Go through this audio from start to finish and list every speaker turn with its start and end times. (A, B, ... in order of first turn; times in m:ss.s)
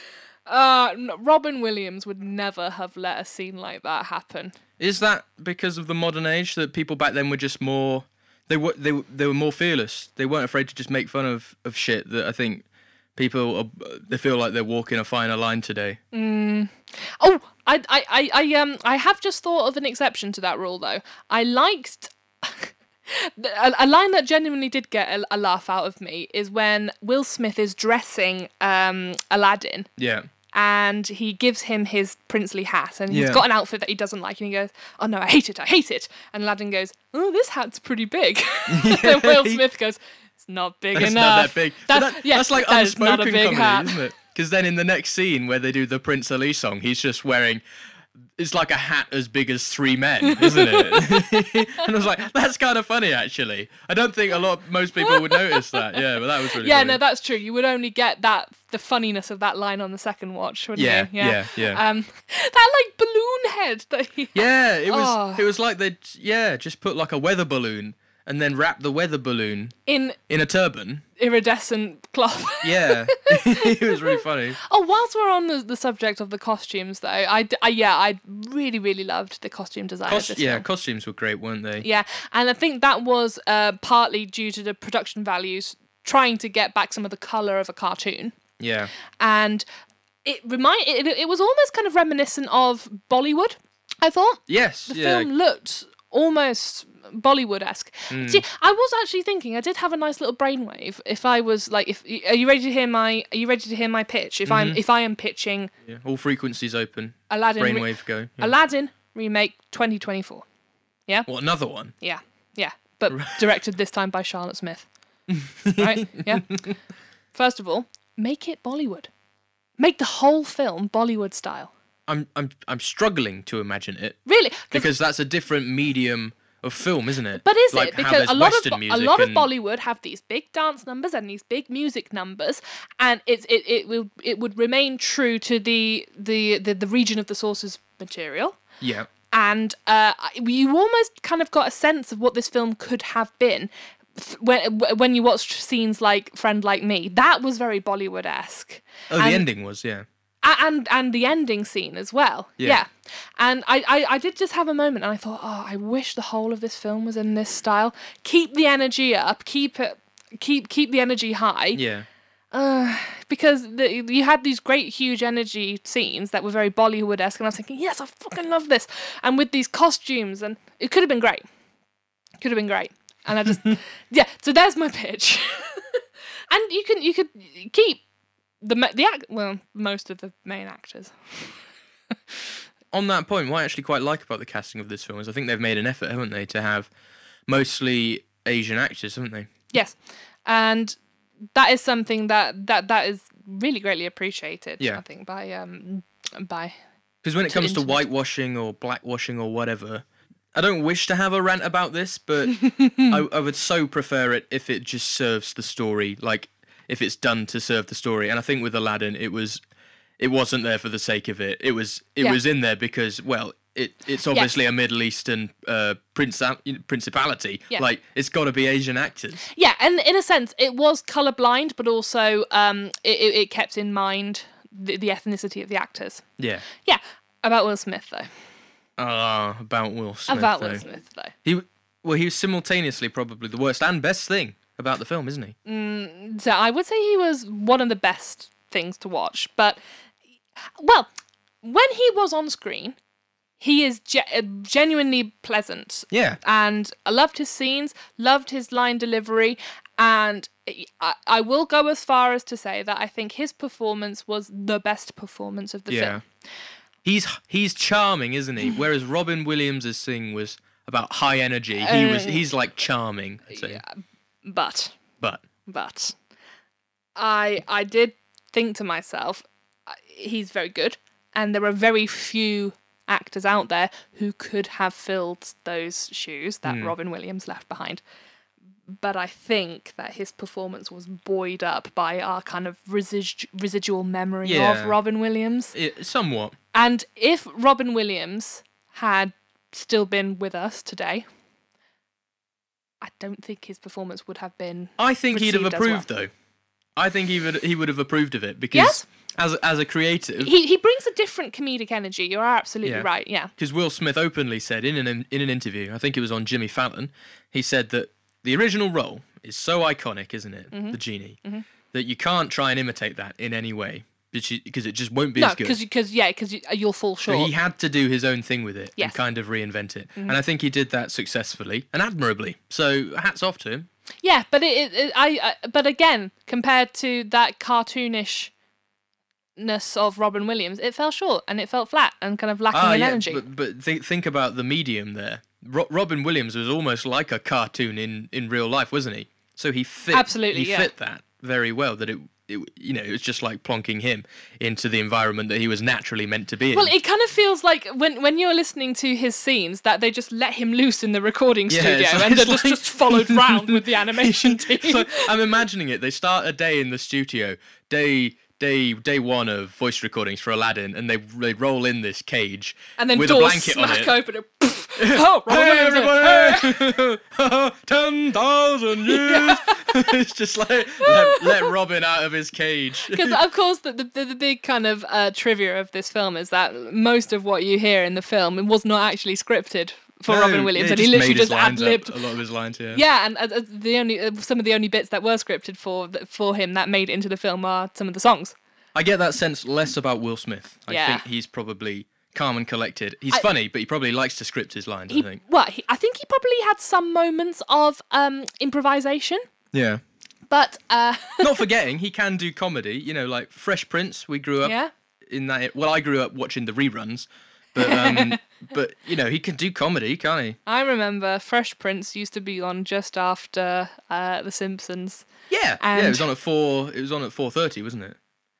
0:00.5-0:04.6 A
0:04.8-0:12.6 B
0:13.2-0:16.0 B
0:16.1-0:29.9 A
0:30.0-0:30.3 B
0:30.5-0:44.0 A
0:33.1-0:33.4 B
0:38.7-0:39.6 B
0:41.0-0:47.6 B
0:48.4-0:57.0 B
0:50.2-0:51.8 A
0:55.0-1:05.5 A
1:00.8-1:01.8 B
1:04.3-1:09.8 B
1:09.9-1:10.2 A
1:10.3-1:11.0 B
1:11.2-1:20.7 A
1:12.6-1:14.6 B
1:20.1-1:21.9 B
1:21.8-1:28.4 A
1:28.6-1:28.9 B
1:29.2-1:29.7 A
1:30.2-1:45.7 A
1:34.5-1:35.3 B
1:38.1-1:38.4 B
1:44.5-1:44.8 B
1:45.8-1:48.5 B
1:47.3-1:50.4 A
1:51.3-1:51.9 B
1:52.0-1:54.9 A
1:53.1-1:53.4 B
1:55.3-1:56.7 B
1:55.8-1:56.5 A
1:57.3-1:59.1 A
1:59.8-2:01.7 A
2:02.1-2:04.2 B
2:04.3-2:04.9 A
2:04.7-2:09.5 B
2:07.3-2:18.6 A
2:18.8-2:19.1 B
2:19.3-2:29.5 A
2:29.1-2:30.0 B
2:30.4-2:41.8 A
2:41.7-2:42.1 B
2:42.5-2:51.4 A
2:52.4-2:58.0 A
2:58.6-3:01.5 A
3:02.9-3:06.9 B
3:07.5-3:09.5 B
3:09.7-3:11.0 A
3:11.6-3:16.8 A
3:17.2-3:29.6 B
3:17.4-3:18.1 A
3:22.6-3:23.2 A
3:30.2-3:39.4 B
3:39.5-3:48.3 A
3:46.4-3:46.6 B
3:49.0-3:50.8 B
3:50.3-3:51.3 A
3:51.4-3:55.6 B
3:55.7-3:59.8 A
4:00.8-4:01.1 A
4:01.6-4:03.0 A
4:03.6-4:16.2 A
4:06.1-4:06.4 B
4:15.9-4:16.2 B
4:17.0-4:23.8 B
4:21.8-4:22.5 A
4:23.5-4:25.0 A
4:25.7-4:26.2 A
4:27.2-4:38.0 A
4:36.6-4:36.9 B
4:38.9-4:45.8 A
4:44.4-4:45.0 B
4:45.7-4:46.6 B
4:46.7-4:51.2 A
4:53.0-4:56.0 A
4:55.0-4:56.3 B
4:57.0-5:00.5 B
4:58.7-4:59.1 A
5:00.4-5:03.5 A
5:02.8-5:11.4 B
5:10.7-5:11.6 A
5:11.9-5:15.8 B
5:15.4-5:17.5 A
5:17.3-5:23.9 B
5:24.2-5:28.5 A
5:29.6-5:33.4 A
5:32.7-5:46.9 B
5:40.1-5:40.9 A
5:46.7-5:55.3 A
5:51.7-6:04.2 B
6:03.0-6:06.8 A
6:05.0-6:13.4 B
6:09.1-6:10.2 A
6:11.0-6:11.7 A
6:13.0-6:22.2 A
6:20.3-6:23.0 B
6:22.9-6:28.6 A
6:28.9-6:35.4 B
6:30.9-6:31.2 A
6:35.1-6:39.4 A
6:39.7-6:40.0 B
6:40.5-6:41.6 A
6:41.4-6:44.8 B
6:44.6-6:44.9 A
6:45.3-6:50.6 B
6:47.8-6:48.4 A
6:50.7-6:55.3 A
6:55.5-6:58.2 B
6:55.8-6:56.3 A